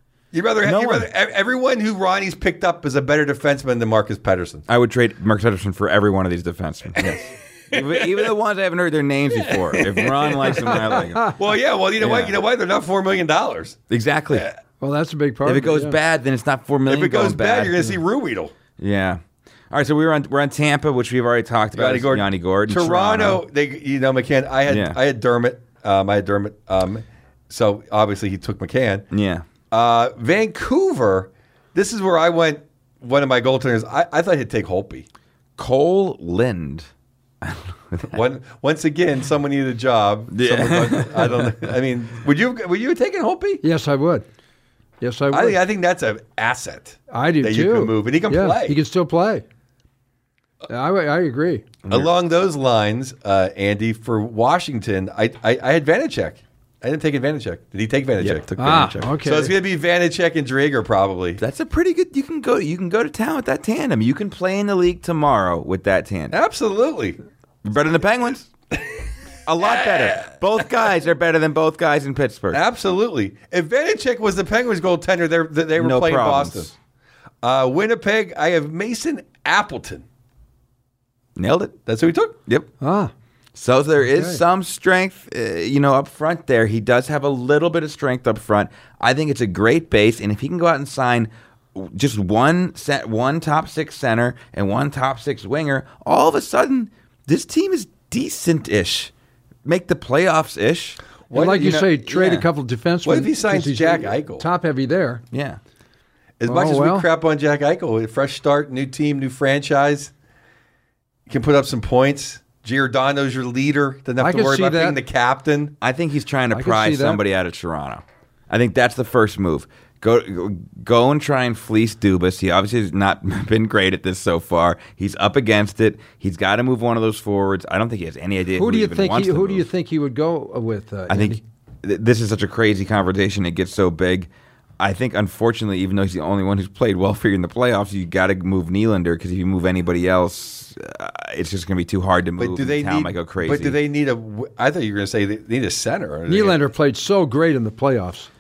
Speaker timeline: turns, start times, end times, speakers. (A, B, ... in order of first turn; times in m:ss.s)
0:00.3-0:04.6 A
0:00.6-0:01.1 B
0:04.7-0:11.4 B
0:07.7-0:08.3 A
0:09.4-0:13.8 A
0:12.0-0:12.4 B
0:13.9-0:14.5 B
0:14.8-0:16.0 C
0:15.5-0:18.0 B
0:16.9-0:18.5 A
0:18.8-0:23.4 B
0:21.7-0:29.1 A
0:24.7-0:25.0 B
0:29.1-0:29.5 B
0:29.7-0:35.1 A
0:35.6-0:36.9 B
0:37.4-0:38.2 B
0:38.1-0:43.6 A
0:40.3-0:41.5 B
0:43.6-0:44.3 C
0:45.0-0:45.6 C
0:45.3-0:48.8 A
0:47.1-0:49.4 C
0:50.7-0:51.6 C
0:51.8-0:52.1 B
0:51.9-1:01.4 A
0:58.2-0:58.9 B
0:58.6-0:59.5 C
1:01.4-1:06.4 B
1:06.3-1:07.2 A
1:07.6-1:08.5 B
1:09.5-1:12.6 B
1:09.8-1:10.2 A
1:12.5-1:16.7 A
1:15.8-1:16.7 B
1:17.4-1:20.0 A
1:21.4-1:21.8 B
1:21.9-1:22.4 A
1:22.8-1:23.1 C
1:23.6-1:39.1 B
1:24.0-1:24.4 C
1:39.6-1:41.0 B
1:41.3-1:41.9 A
1:41.3-1:45.2 C
1:41.5-1:42.5 B
1:43.0-1:44.4 A
1:45.3-1:45.6 B
1:46.4-1:50.1 A
1:46.5-1:47.1 C
1:51.3-1:55.8 A
1:54.2-1:55.0 C
1:55.8-2:09.6 B
1:56.5-1:57.2 C
2:08.6-2:11.4 C
2:11.1-2:23.8 B
2:22.4-2:26.6 A
2:26.3-2:28.3 C